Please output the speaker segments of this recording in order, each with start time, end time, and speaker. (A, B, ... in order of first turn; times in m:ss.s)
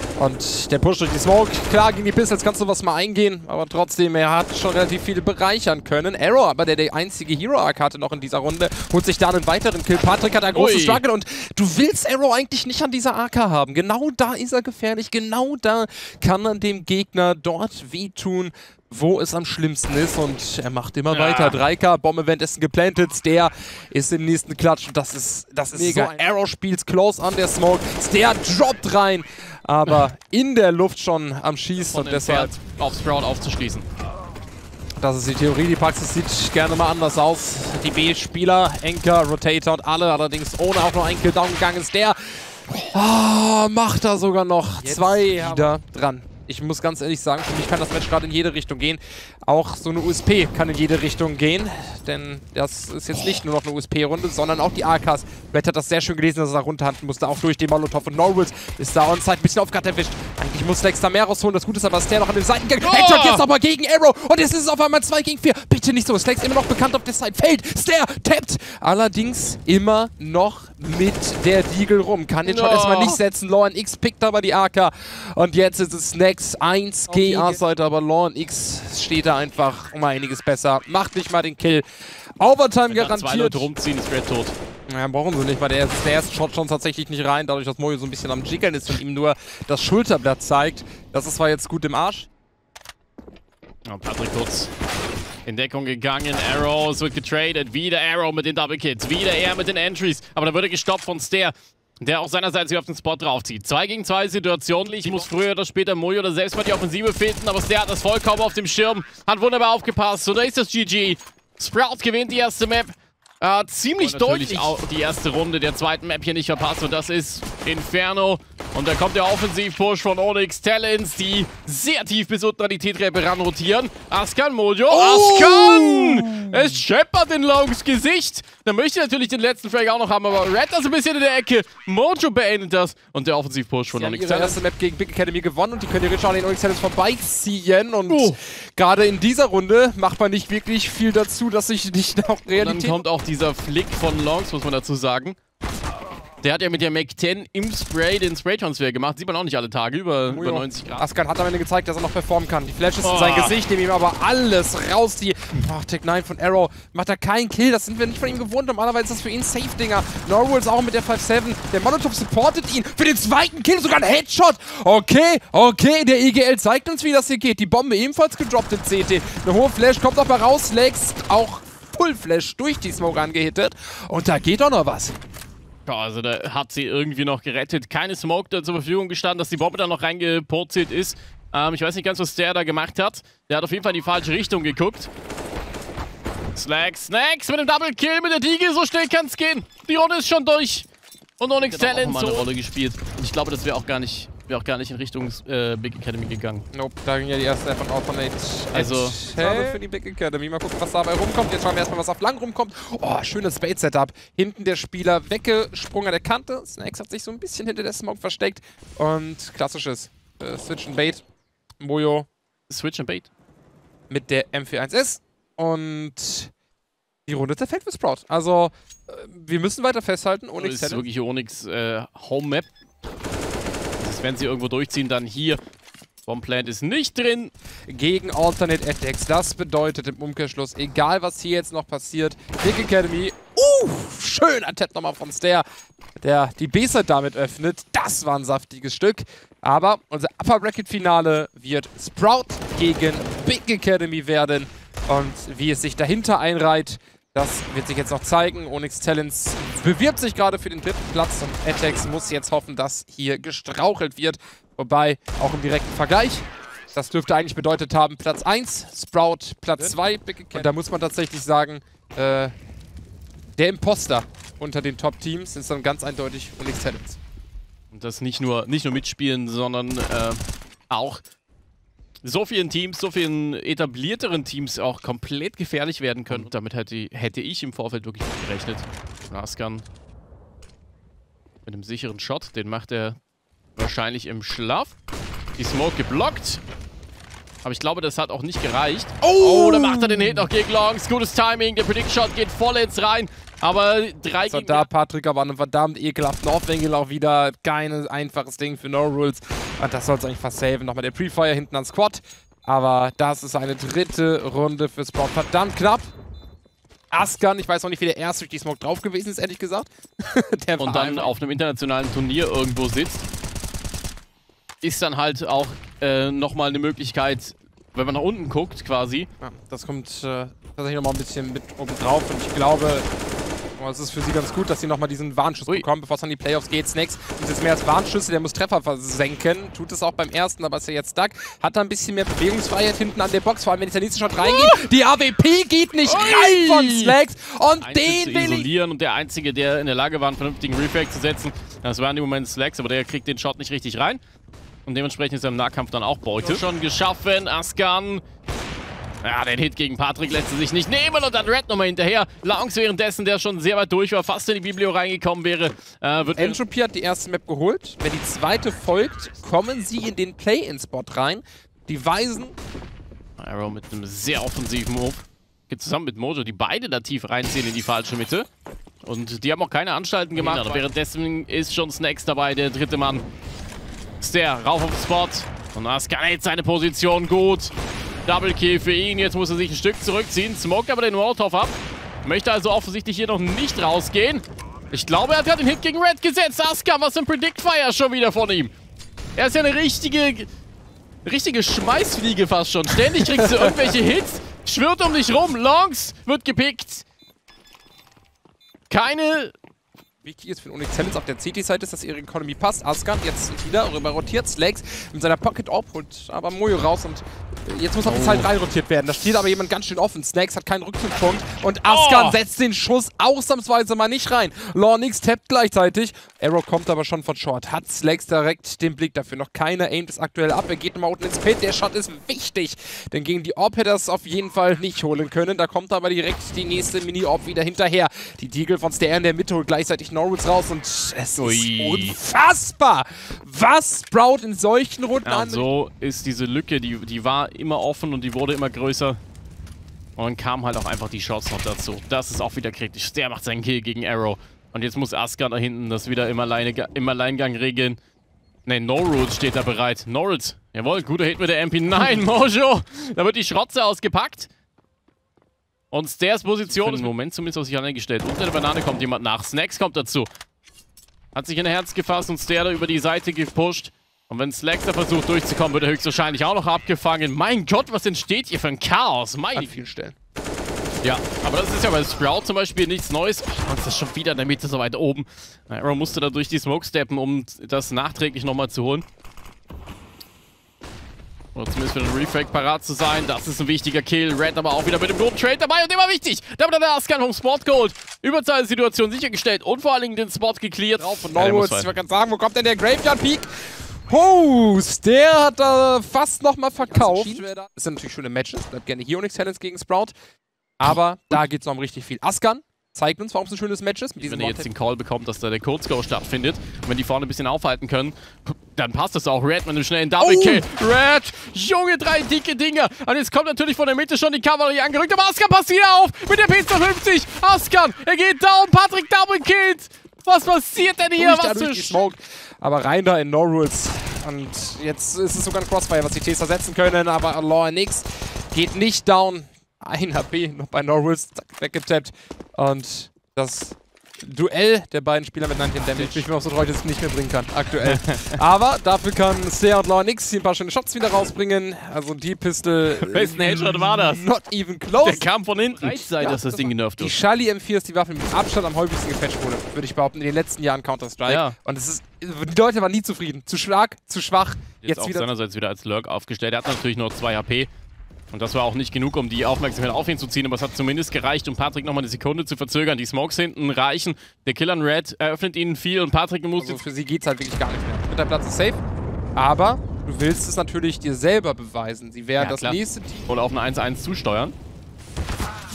0:00.2-0:32.5 A
0:10.5-0:11.0 B
0:21.1-0:21.6 B
0:25.8-0:26.1 B
0:31.8-0:33.9 B
0:35.0-1:21.8 A
0:44.8-0:45.7 B
1:02.8-1:03.4 B
1:12.4-1:13.2 B
1:17.1-1:17.6 B
1:22.4-1:23.7 A
1:22.9-1:24.6 B
1:24.9-1:32.3 A
1:33.9-1:34.7 B
1:35.4-2:14.6 B
1:44.9-1:45.3 A
1:54.0-1:54.7 A
2:04.9-2:06.8 A
2:13.9-2:23.0 A
2:18.1-2:18.4 B
2:22.5-2:25.4 B
2:26.4-2:31.1 B
2:30.2-2:55.2 A
2:33.0-2:33.6 B
2:55.8-3:05.1 B
3:06.5-3:10.8 B
3:11.4-3:16.6 B
3:11.7-3:12.5 A
3:16.7-3:31.2 A
3:18.7-3:19.7 B
3:31.8-3:32.3 A
3:32.7-3:33.3 B
3:34.1-3:36.5 A
3:37.3-3:41.0 A
3:40.6-3:42.7 B
3:44.0-3:45.6 B
3:46.3-3:47.5 B
3:47.9-3:55.6 A
3:56.2-4:22.5 A
4:23.6-4:27.2 A
4:27.9-4:31.2 B
4:32.2-4:39.8 B
4:41.6-4:43.2 B
4:43.8-4:44.9 B
4:45.6-4:46.6 B
4:47.6-4:54.9 B
4:49.2-4:50.5 A
4:54.4-5:06.1 A
5:07.1-5:11.3 A
5:10.8-5:13.2 B
5:14.8-5:19.3 B
5:19.4-5:23.1 A
5:23.8-5:38.7 A
5:34.4-5:34.7 B
5:36.0-5:37.1 B
5:37.8-5:44.2 B
5:44.8-5:48.2 B
5:49.2-5:56.6 B
5:56.3-6:02.6 A
6:03.4-6:08.5 B
6:09.0-6:13.2 B
6:10.3-6:10.9 A
6:14.2-6:17.7 B
6:18.2-6:28.7 B
6:29.4-6:30.5 B
6:31.2-6:37.0 B
6:33.2-6:33.9 A
6:38.9-6:39.5 B
6:40.2-7:15.6 A
6:48.0-6:48.5 B
6:51.9-6:52.4 B
7:11.4-7:12.2 B
7:15.2-7:19.2 B
7:20.2-7:28.0 B
7:28.6-7:34.5 B
7:35.9-7:40.3 B
7:36.7-7:37.1 A
7:41.3-7:49.8 B
7:49.5-7:50.2 A
7:51.0-7:59.0 B
8:01.5-8:11.9 B
8:11.0-8:20.1 A
8:16.9-8:17.4 B
8:20.8-8:24.7 A
8:20.9-8:21.4 B
8:24.2-8:42.1 B
8:30.2-8:30.7 A
8:41.1-9:05.2 A
8:55.9-8:56.3 B
8:57.8-8:58.4 B
9:02.9-9:04.2 B
9:05.0-9:07.2 B
9:05.8-9:15.3 A
9:11.2-9:11.6 B
9:14.8-9:17.7 B
9:18.3-9:26.8 B
9:26.6-9:28.8 A
9:29.4-9:33.3 A
9:32.4-9:34.5 B